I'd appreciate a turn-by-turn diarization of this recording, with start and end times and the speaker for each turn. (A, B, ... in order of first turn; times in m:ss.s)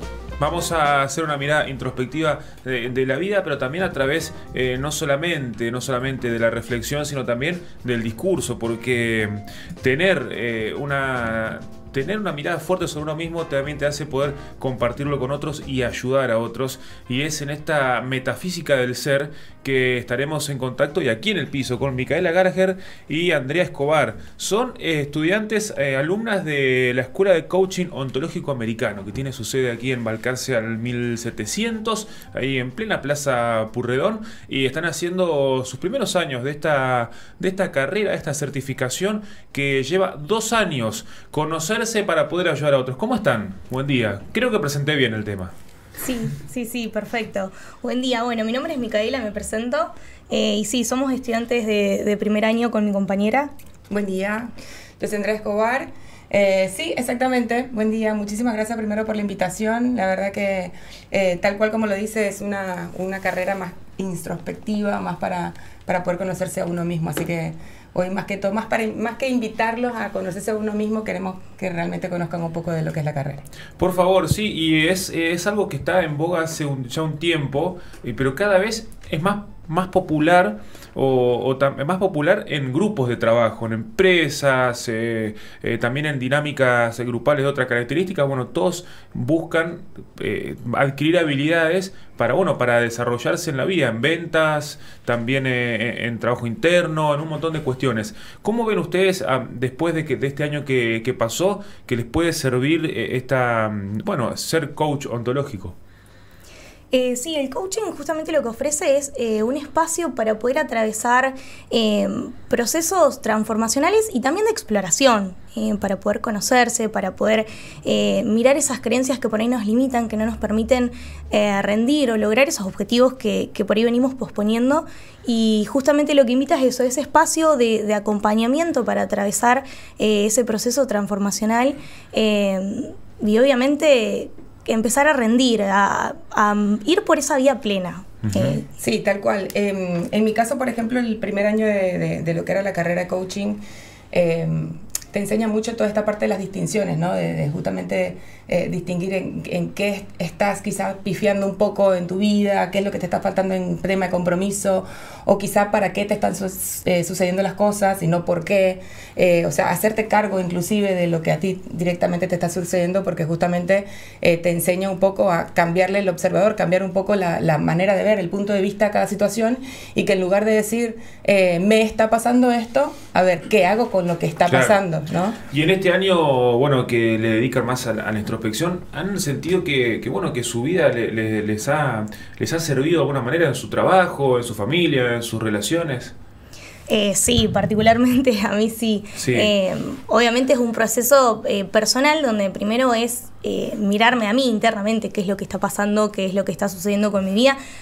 0:00.4-0:45.5 A
0:46.0-0:53.5 B
0:53.9-1:13.4 C
1:13.8-1:45.8 A
1:46.9-2:18.7 B
2:18.2-2:18.6 A
2:18.7-2:55.4 C
2:54.5-2:54.8 A
2:55.5-3:06.1 A
3:06.9-3:17.6 B
3:09.2-3:09.5 A